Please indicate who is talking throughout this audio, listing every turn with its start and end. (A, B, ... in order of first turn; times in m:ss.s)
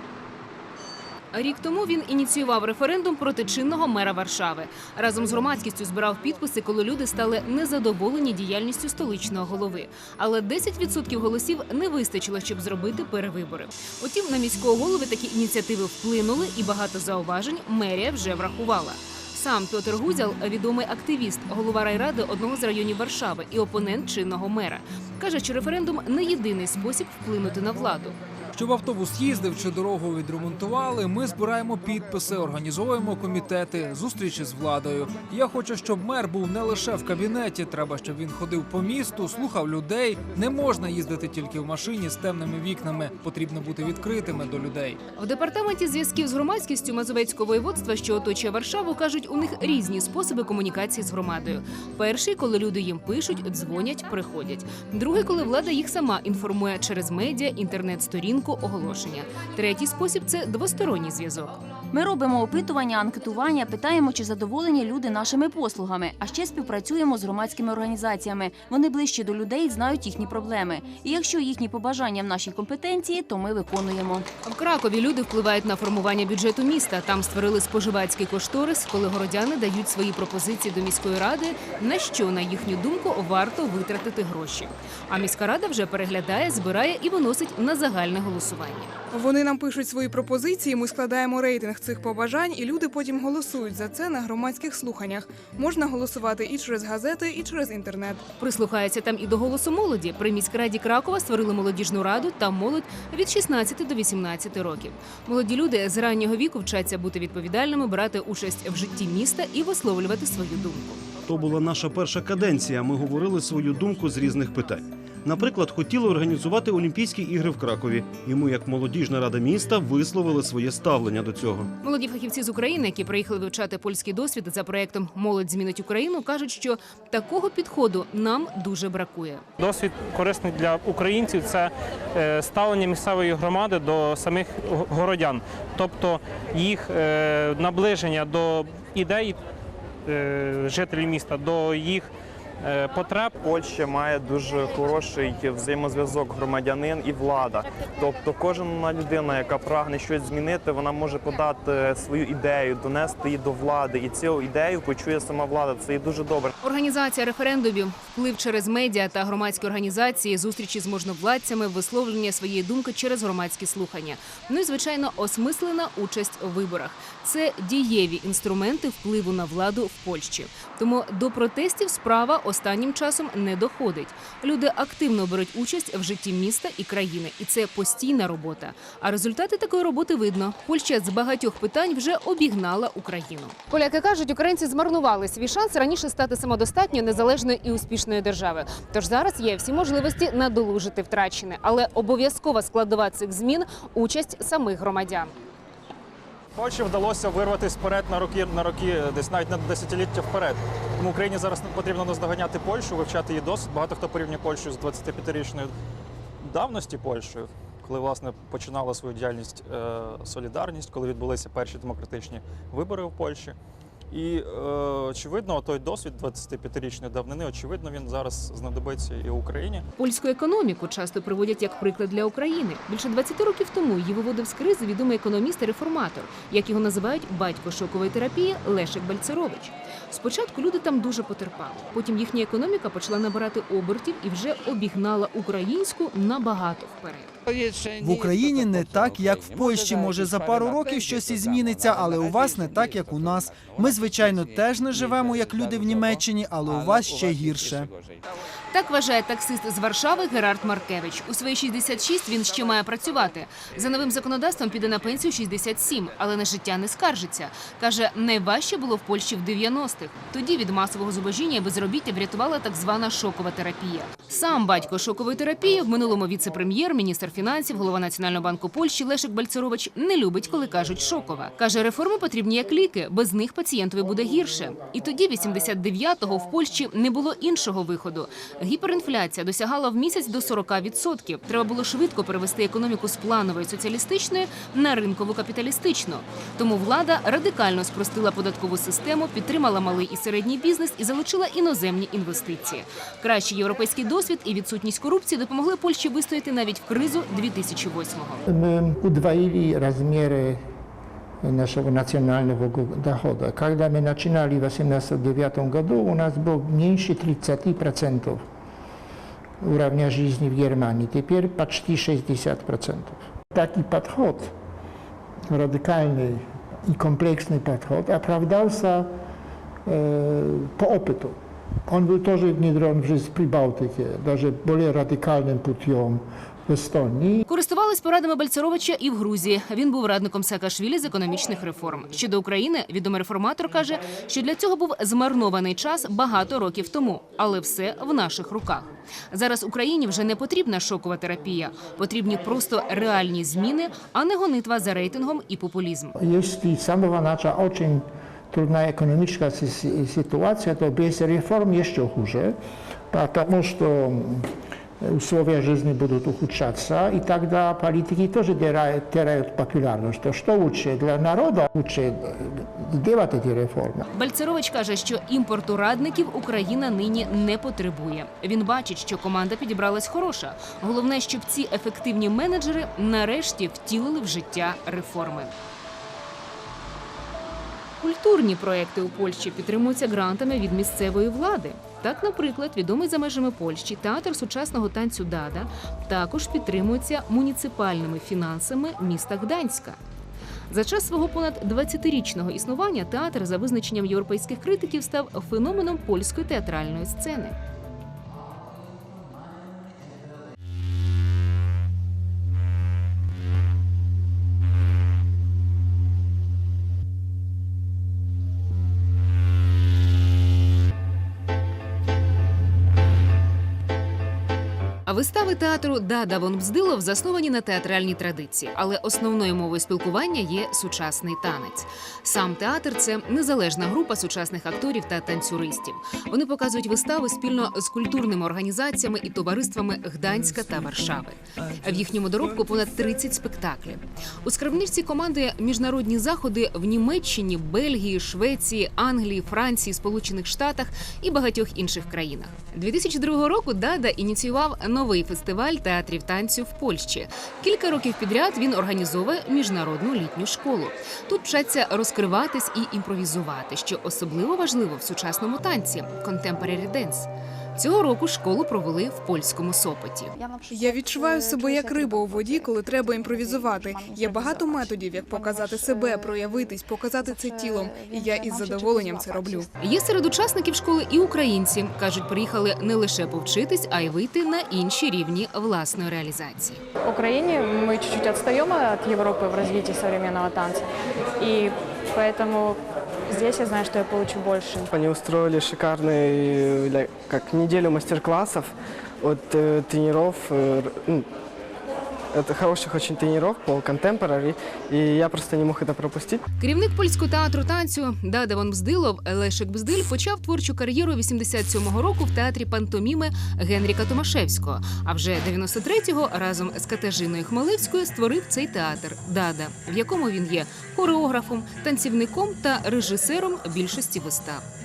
0:01.3-0:28.2 A
0:28.5-0:45.0 B
0:45.2-1:01.6 A
1:01.9-1:14.3 C
1:14.4-1:28.9 A
1:29.1-1:38.2 D
1:38.4-1:51.0 A
1:51.3-2:01.7 E
2:01.8-2:09.4 A
2:09.6-2:19.4 F
2:20.1-2:22.1 F
2:22.6-2:23.3 F
2:23.4-2:36.5 G
2:36.6-3:15.3 A
3:16.6-3:25.7 H
3:16.6-3:17.4 F
3:19.0-3:20.3 F
3:21.0-3:21.8 F
3:23.3-3:23.7 F
3:26.4-3:33.5 H
3:34.1-3:39.8 H
3:40.0-3:57.3 A
3:58.0-4:07.9 I
4:08.7-4:58.4 A
4:58.5-5:00.6 J
5:01.4-5:08.4 J
5:09.6-5:14.5 J
5:15.5-5:19.1 J
5:19.9-5:21.4 J
5:21.9-5:27.4 J
5:27.5-5:46.2 A
5:46.2-5:52.6 J
5:53.1-5:54.5 J
5:55.0-6:04.1 J
6:04.1-6:15.6 A
6:18.0-6:30.0 A
6:30.7-6:37.6 A
6:55.1-7:40.3 A
7:40.7-7:49.7 D
7:41.3-7:42.2 K
7:45.3-7:46.7 K
7:47.3-7:49.6 K
7:49.8-7:56.8 A
7:57.0-8:04.9 K
8:04.9-8:11.3 L
8:12.3-8:16.4 L
8:16.6-8:34.6 A